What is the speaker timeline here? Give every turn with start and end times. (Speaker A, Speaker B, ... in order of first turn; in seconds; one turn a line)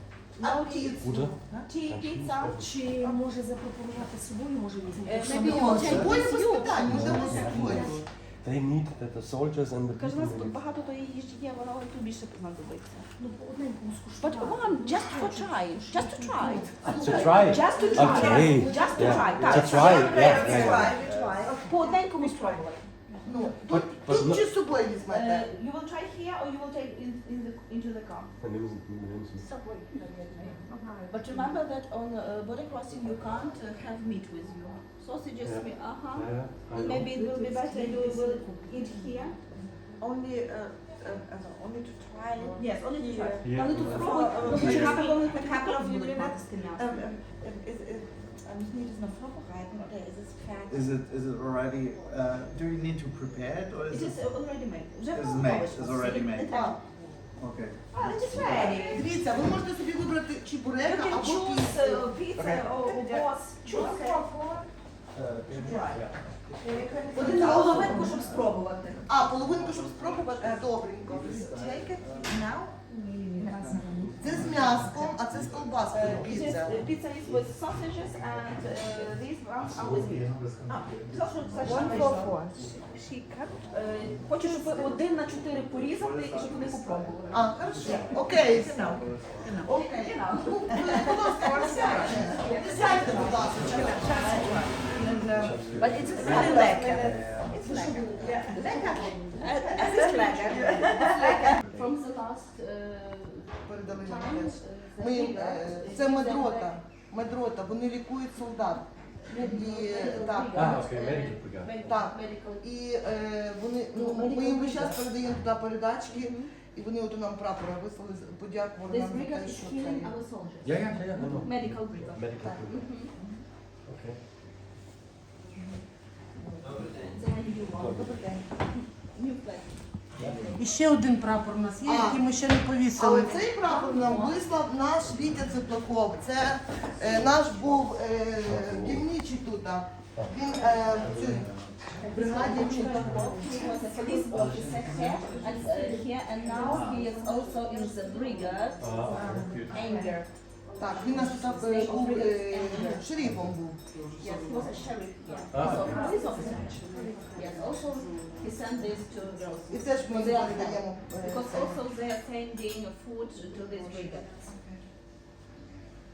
Speaker A: 0.3-2.6
Speaker B: 0.4-1.4
Speaker C: 1.0-2.7
Speaker D: 2.6-7.9
Speaker A: 5.0-7.3
Speaker B: 5.2-8.0
Speaker E: 5.4-8.1
Speaker C: 6.8-10.6
Speaker A: 9.9-13.1
Speaker D: 13.2-16.7
Speaker A: 14.2-22.8
Speaker B: 16.3-19.4
Speaker C: 16.9-21.0
Speaker F: 17.7-18.4
Speaker F: 19.3-22.6
Speaker D: 19.5-21.0
Speaker E: 20.5-21.6
Speaker B: 23.2-25.5
Speaker C: 23.7-24.4
Speaker A: 25.1-28.3
Speaker C: 28.4-29.5
Speaker A: 29.9-30.6
Speaker F: 30.4-31.6
Speaker A: 31.1-39.4
Speaker C: 35.4-37.1
Speaker F: 37.1-51.0
Speaker A: 42.5-47.1
Speaker C: 43.4-45.0
Speaker E: 50.7-54.2
Speaker A: 53.9-56.8
Speaker E: 55.1-56.6
Speaker B: 56.4-57.0
Speaker E: 57.4-58.8
Speaker A: 57.9-59.1
Speaker F: 58.2-59.0
Speaker B: 58.8-62.1
Speaker A: 60.8-64.2
Speaker E: 62.4-62.7
Speaker F: 62.6-64.7
Speaker E: 65.1-72.4
Speaker A: 65.5-66.0
Speaker F: 65.6-65.8
Speaker C: 65.8-66.2
Speaker F: 66.6-68.4
Speaker B: 67.1-68.2
Speaker A: 67.1-69.1
Speaker B: 69.0-71.5
Speaker F: 70.4-70.6
Speaker F: 71.2-75.0
Speaker E: 73.4-82.8
Speaker B: 74.2-76.8
Speaker A: 75.9-88.1
Speaker F: 81.6-82.6
Speaker E: 83.5-89.7
Speaker F: 84.3-85.0
Speaker B: 87.3-89.0
Speaker F: 87.6-101.6
Speaker A: 89.5-95.0
Speaker B: 90.7-94.1
Speaker E: 92.9-98.5
Speaker C: 95.3-97.5
Speaker A: 95.7-106.8
Speaker D: 97.5-100.1
Speaker C: 101.6-101.9
Speaker B: 103.7-110.8
Speaker A: 109.3-112.7
Speaker C: 110.5-112.0
Speaker B: 111.8-120.1
Speaker A: 113.9-115.0
Speaker A: 116.1-116.5
Speaker A: 118.9-123.1
Speaker C: 120.6-122.9
Speaker B: 122.4-122.6
Speaker C: 123.8-124.2
Speaker B: 126.4-126.9
Speaker E: 126.8-127.1
Speaker A: 126.9-128.2
Speaker C: 127.7-128.2
Speaker B: 127.8-128.4
Speaker A: 128.7-130.6
Speaker E: 130.2-130.6
Speaker C: 130.2-130.5
Speaker G: 130.5-133.5
Speaker B: 131.8-132.3
Speaker B: 132.9-141.5
Speaker A: 133.5-134.4
Speaker C: 138.4-139.1
Speaker F: 140.5-140.7
Speaker E: 140.8-142.1
Speaker C: 141.0-141.4
Speaker D: 142.1-143.8
Speaker F: 142.1-144.2
Speaker B: 142.1-143.1
Speaker A: 142.3-149.1
Speaker C: 144.3-145.3
Speaker E: 144.3-145.7
Speaker D: 145.3-147.6
Speaker F: 145.7-150.1
Speaker E: 146.6-147.1
Speaker C: 148.8-149.5
Speaker D: 149.1-149.8
Speaker E: 149.2-150.0
Speaker A: 149.7-150.3
Speaker F: 150.7-151.9
Speaker B: 150.8-153.8
Speaker A: 151.5-153.1
Speaker E: 153.3-155.7
Speaker A: 154.2-156.8
Speaker F: 154.6-159.3
Speaker C: 155.5-156.0
Speaker D: 155.9-157.5
Speaker A: 157.3-164.4
Speaker B: 159.7-161.8
Speaker F: 163.7-164.8